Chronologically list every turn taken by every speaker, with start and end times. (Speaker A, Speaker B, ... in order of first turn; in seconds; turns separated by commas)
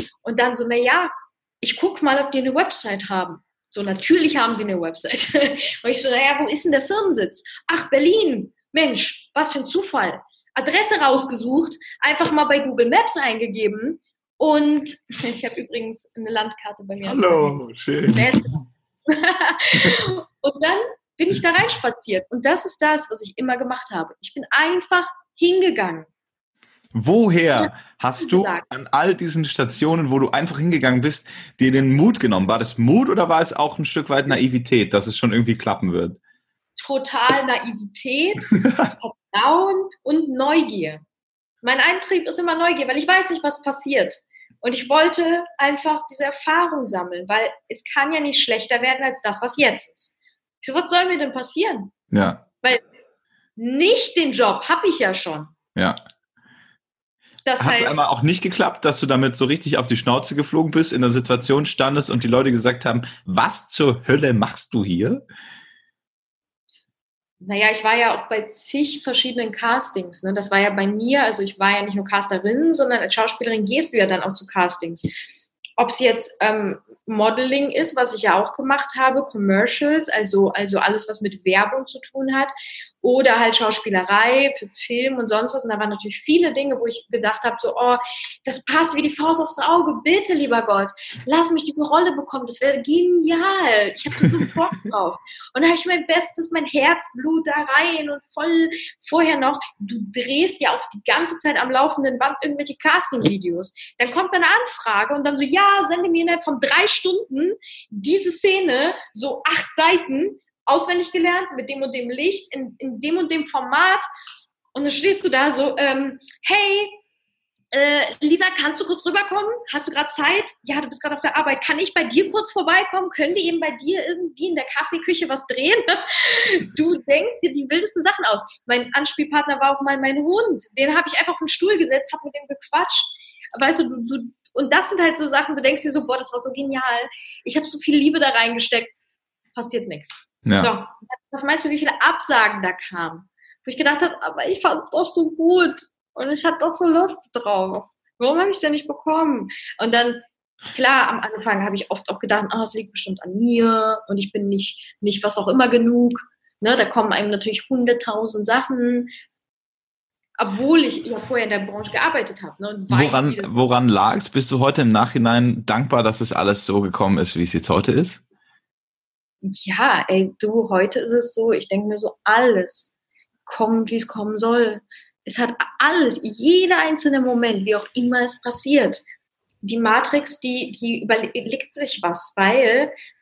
Speaker A: 0.2-26.1, Speaker B: 17.1-18.3, Speaker B: 26.9-36.2, Speaker A: 27.5-28.6, Speaker A: 36.8-41.0, Speaker B: 38.5-38.9, Speaker A: 41.6-51.9, Speaker B: 52.1-52.4, Speaker A: 53.6-55.5, Speaker A: 57.4-58.0, Speaker B: 57.6-65.2, Speaker A: 67.4-75.1, Speaker A: 75.8-114.1, Speaker A: 114.7-117.0, Speaker A: 117.7-138.9, Speaker A: 139.5-159.1, Speaker B: 140.4-140.7, Speaker A: 160.4-163.7, Speaker B: 162.9-168.2, Speaker A: 169.4-172.9, Speaker A: 173.4-179.0, Speaker A: 179.6-182.9